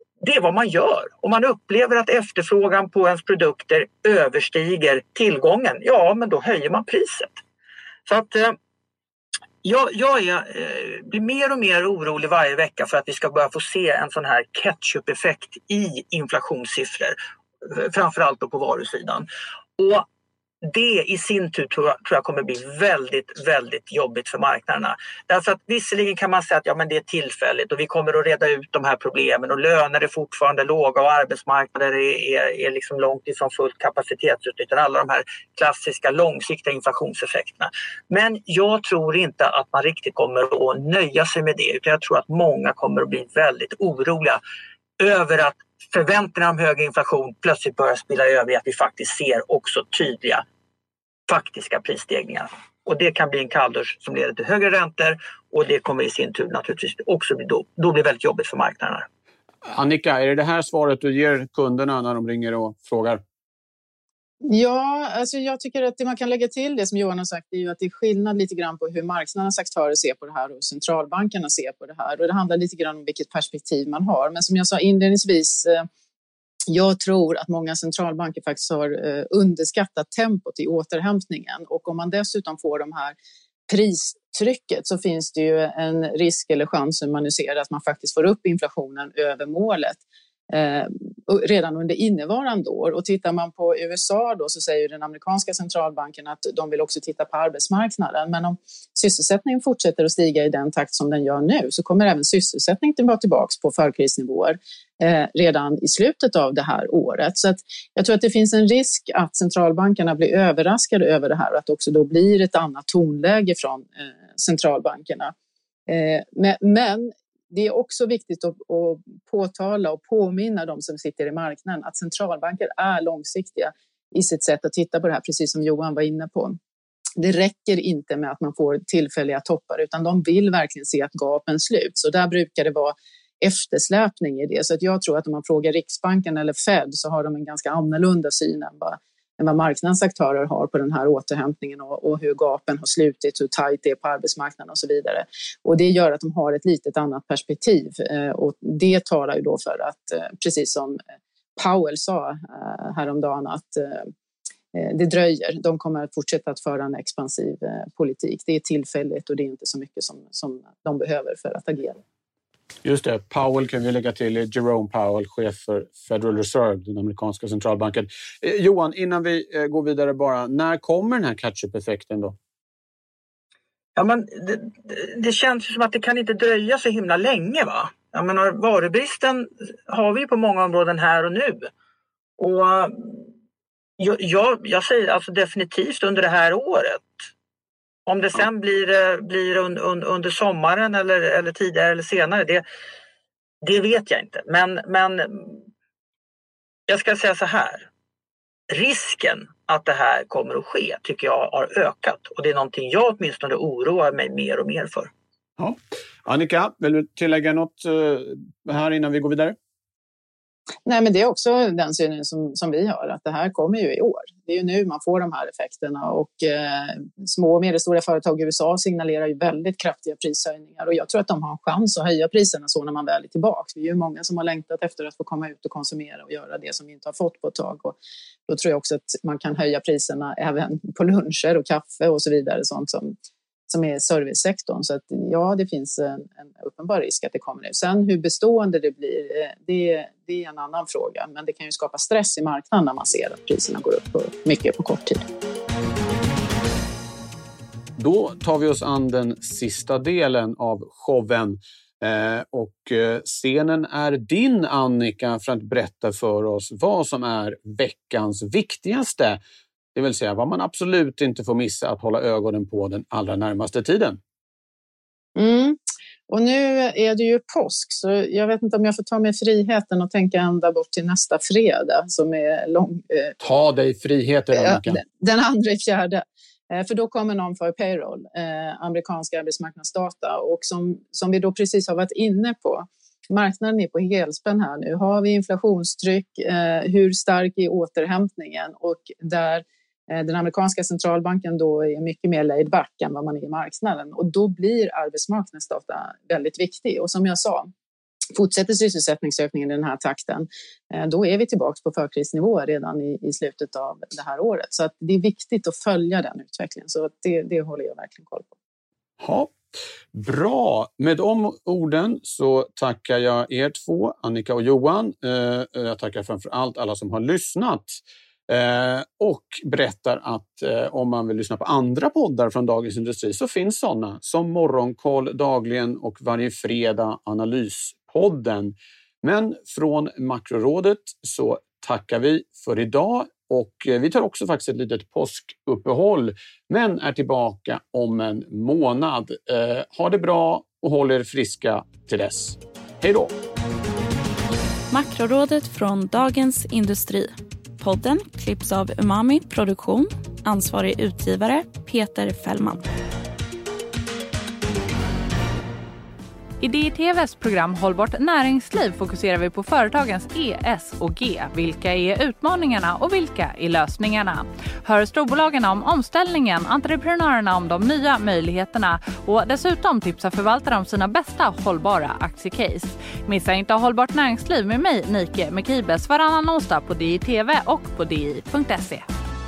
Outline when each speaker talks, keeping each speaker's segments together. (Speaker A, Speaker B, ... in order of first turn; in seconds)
Speaker A: 0.2-7.4, 8.1-8.6, 9.6-19.2, 19.8-20.1, 20.6-44.4, 45.0-50.4, 51.3-59.1, 173.9-181.7, 182.4-183.3, 184.0-187.1, 188.1-192.6, 193.6-195.6, 196.9-197.9, 198.7-205.1
Speaker B: 59.6-63.2, 162.8-172.3, 205.6-209.6, 248.0-259.4, 259.9-264.2, 273.4-275.0, 309.2-343.3
Speaker C: 64.5-75.9, 76.7-83.2, 83.7-115.3, 115.9-126.6, 127.2-151.0, 151.6-154.1, 154.7-162.0, 210.8-227.9, 228.5-233.1, 233.7-245.2, 265.4-273.3, 274.5-297.7, 298.3-308.5
Speaker D: 344.9-352.8
Speaker E: 356.6-379.1